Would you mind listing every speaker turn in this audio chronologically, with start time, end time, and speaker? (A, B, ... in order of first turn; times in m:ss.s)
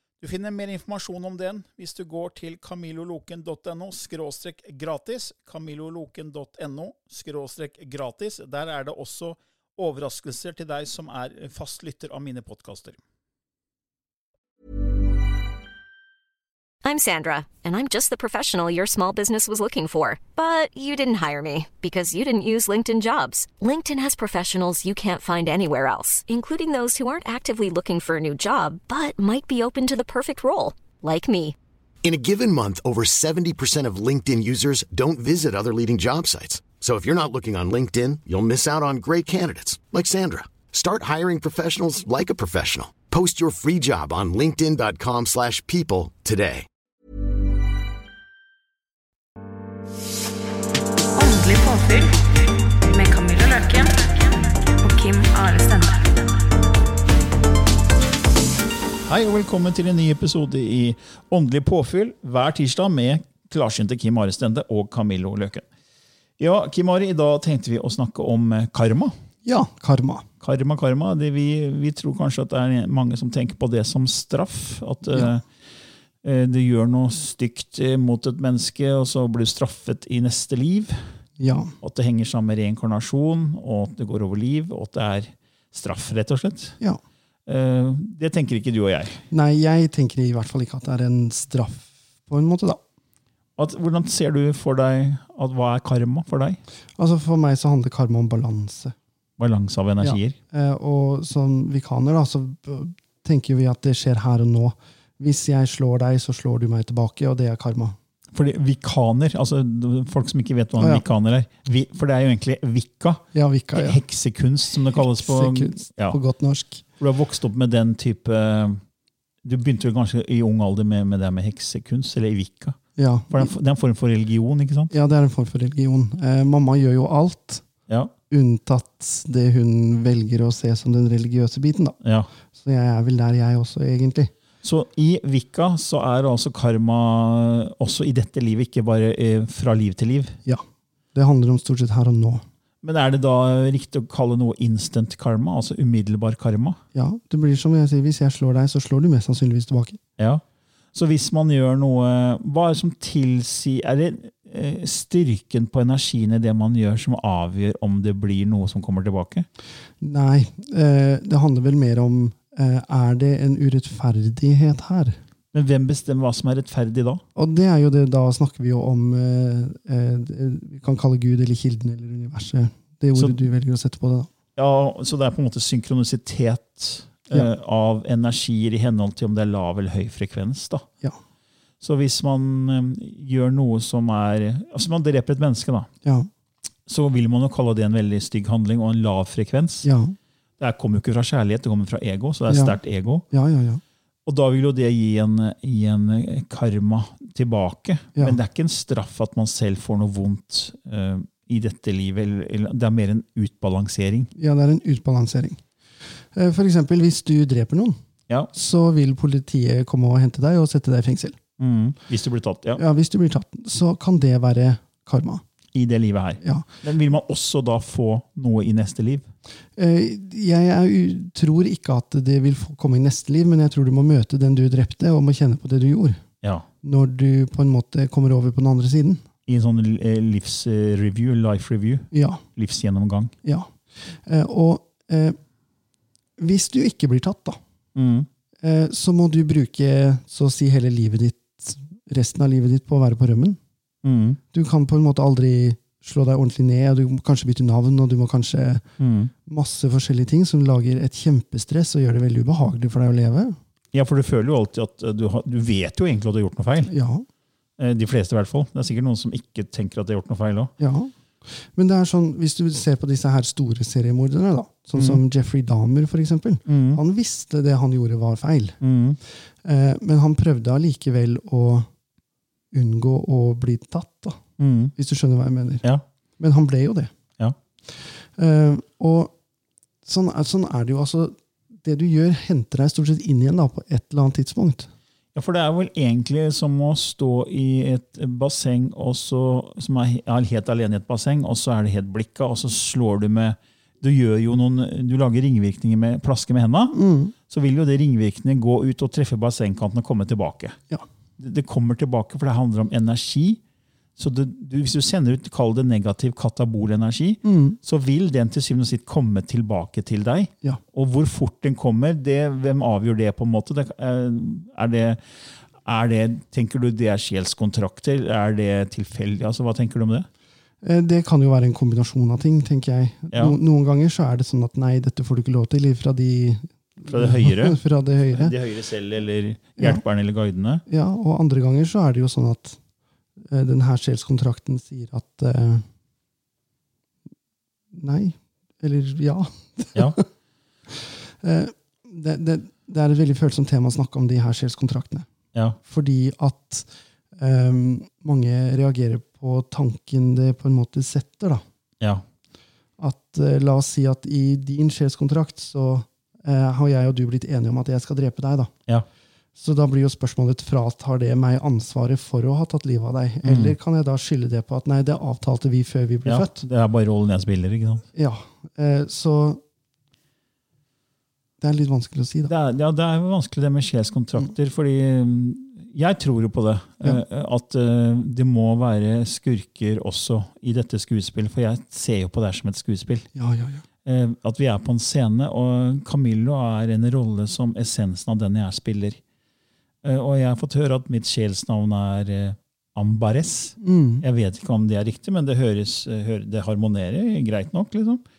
0:00.2-0:13.0 A
0:16.8-0:31.5 B
0:32.0-0:46.7 C
0:51.2-0:56.2 D
0:59.1-1:05.6 A
1:06.4-1:09.1 A
1:09.4-1:10.2 E
1:10.4-1:15.4 A
1:16.2-1:21.1 A
1:21.4-1:21.7 E
1:21.8-1:26.8 A
1:27.4-1:29.2 A
1:29.3-1:32.8 E
1:33.6-1:36.6 A
1:37.0-1:39.0 E
1:39.4-1:40.4 A
1:40.0-1:48.0 E
1:48.3-1:56.2 A
1:50.8-1:51.0 E
1:53.3-1:54.0 E
1:54.9-1:56.8 E
1:57.0-1:58.8 A
1:59.4-2:02.8 A
2:03.0-2:03.5 E
2:03.3-2:04.9 A
2:04.9-2:07.6 E
2:08.3-2:14.3 E
2:12.0-2:12.3 A
2:14.6-2:20.4 A
2:20.4-2:22.4 E
2:22.8-2:26.8 A
2:26.9-2:30.0 E
2:30.2-2:30.4 A
2:30.9-2:39.5 A
2:40.0-2:45.2 E
2:45.5-2:47.2 A
2:47.3-2:54.3 E
2:54.6-3:00.8 A
3:01.8-3:05.9 A
3:06.0-3:06.3 E
3:06.9-3:09.9 A
3:09.8-3:10.1 E
3:10.6-3:13.2 A
3:12.5-3:12.8 E
3:13.3-3:13.8 E
3:14.2-3:24.3 A
3:24.4-3:25.6 E
3:26.3-3:28.0 E
3:28.5-3:31.4 E
3:31.6-3:32.8 A
3:32.8-3:35.4 E
3:35.7-3:39.3 A
3:36.4-3:36.7 E
3:39.8-3:46.2 E
3:46.4-3:46.7 A
3:46.8-3:49.2 E
3:49.4-3:53.3 A
3:52.1-3:52.4 E
3:53.4-3:55.4 E
3:56.4-3:57.6 E
3:57.9-3:58.3 A
3:58.6-4:03.6 E
4:04.0-4:04.4 A
4:04.5-4:13.6 E
4:09.0-4:09.3 A
4:13.9-4:16.9 A
4:16.9-4:17.2 E
4:17.8-4:20.7 A
4:20.8-4:28.8 E
4:24.9-4:25.2 A
4:26.7-4:27.0 A
4:28.8-4:29.2 A
4:29.6-4:31.9 E
4:32.7-4:34.4 E
4:34.6-4:34.9 A
4:35.0-4:35.8 E
4:36.4-4:37.1 E
4:37.9-4:39.3 E
4:40.0-4:44.9 E
4:45.3-5:00.8 A
4:56.9-4:57.3 E
5:01.4-5:03.6 A
5:04.2-5:15.2 A
5:07.4-5:07.8 E
5:15.8-5:20.3 A
5:20.8-5:28.5 E
5:23.3-5:23.6 A
5:27.0-5:27.8 A
5:28.3-5:30.8 A
5:30.9-5:32.8 E
5:33.4-5:35.8 E
5:37.9-5:40.2 E
5:39.9-5:40.2 A
5:40.9-5:45.3 E
5:45.8-5:51.6 E
5:53.0-5:58.7 E
5:59.5-6:06.6 E
6:03.4-6:03.8 A
6:06.2-6:08.0 A
6:08.1-6:09.6 E
6:11.6-6:12.5 E
6:12.4-6:23.2 A
6:23.3-6:23.8 E
6:24.0-6:29.2 A
6:30.0-6:38.2 A
6:33.8-6:34.2 E